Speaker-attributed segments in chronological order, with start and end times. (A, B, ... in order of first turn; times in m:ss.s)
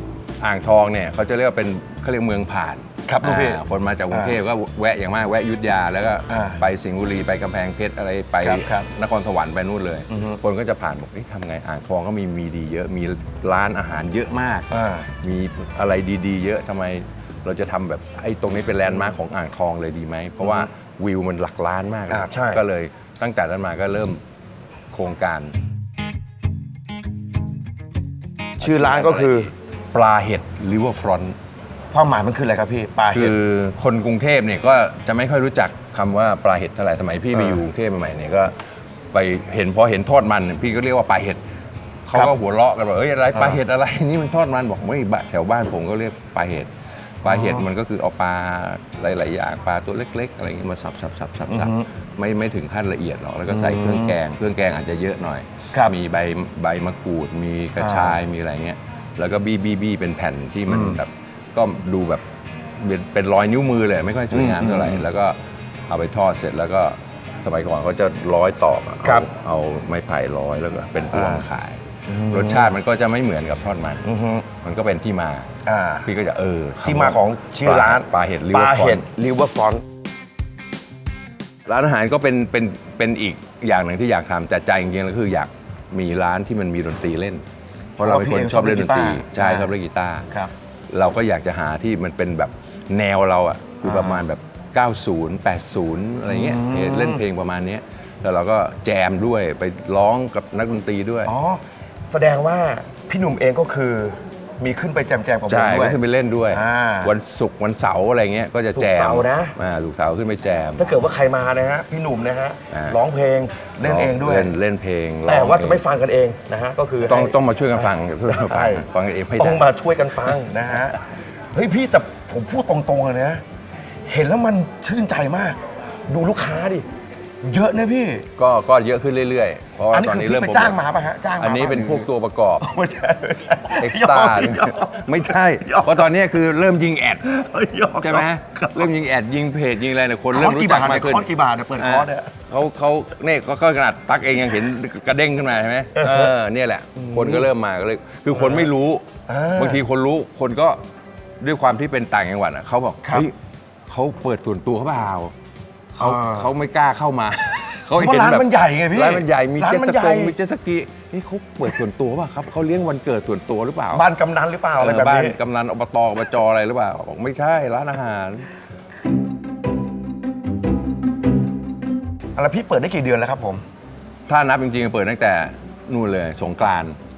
0:00.4-0:24.2 A
0:03.0-0:04.4 B
0:06.3-0:06.6 B
0:08.4-0:08.8 B
0:10.1-0:10.4 B
0:14.7-0:15.1 B
0:20.4-0:20.7 B
0:22.1-0:22.6 B
0:24.9-0:25.5 A
0:28.6-0:31.4 A
0:28.6-0:29.5 B
0:31.9-0:33.4 B
0:33.1-0:38.5 A
0:37.3-0:37.6 B
0:39.1-0:41.4 A
0:42.0-0:46.7 A
0:47.2-1:05.4 A
0:47.3-0:47.7 B
0:51.5-0:51.9 B
0:53.5-0:54.2 B
0:57.8-0:58.2 B
1:00.7-1:01.0 B
1:04.3-1:05.0 B
1:05.9-1:14.0 A
1:09.0-1:09.3 B
1:11.1-1:11.5 B
1:12.1-1:12.7 B
1:14.0-1:14.5 B
1:14.6-1:15.5 A
1:15.6-1:16.1 B
1:16.0-1:19.1 A
1:16.8-1:19.8 B
1:21.6-1:27.4 A
1:28.0-1:30.2 A
1:28.0-1:29.7 B
1:30.9-1:41.3 A
1:33.8-1:34.2 B
1:36.2-1:37.2 B
1:41.2-1:46.0 B
1:45.5-1:50.9 A
1:46.5-1:47.1 B
1:48.7-1:49.5 B
1:50.8-1:54.5 B
1:52.7-1:53.0 A
1:53.8-1:55.8 A
1:55.2-2:03.4 B
1:57.0-1:59.7 A
2:04.1-2:06.8 B
2:07.4-2:08.3 B
2:08.4-2:10.8 A
2:09.9-2:12.1 B
2:11.4-2:12.7 A
2:12.6-2:16.1 B
2:13.8-2:17.2 A
2:17.2-2:18.9 B
2:18.0-2:30.8 A
2:20.3-2:22.4 B
2:25.9-2:26.3 B
2:27.0-2:27.5 B
2:28.3-2:28.7 B
2:29.3-2:29.8 B
2:31.4-2:33.4 A
2:33.0-2:33.3 B
2:33.9-2:35.3 A
2:36.0-2:44.0 A
2:36.0-2:36.5 B
2:37.9-2:40.3 B
2:43.9-2:45.4 B
2:44.8-2:48.5 A
2:52.4-2:53.6 B
2:54.3-2:57.0 A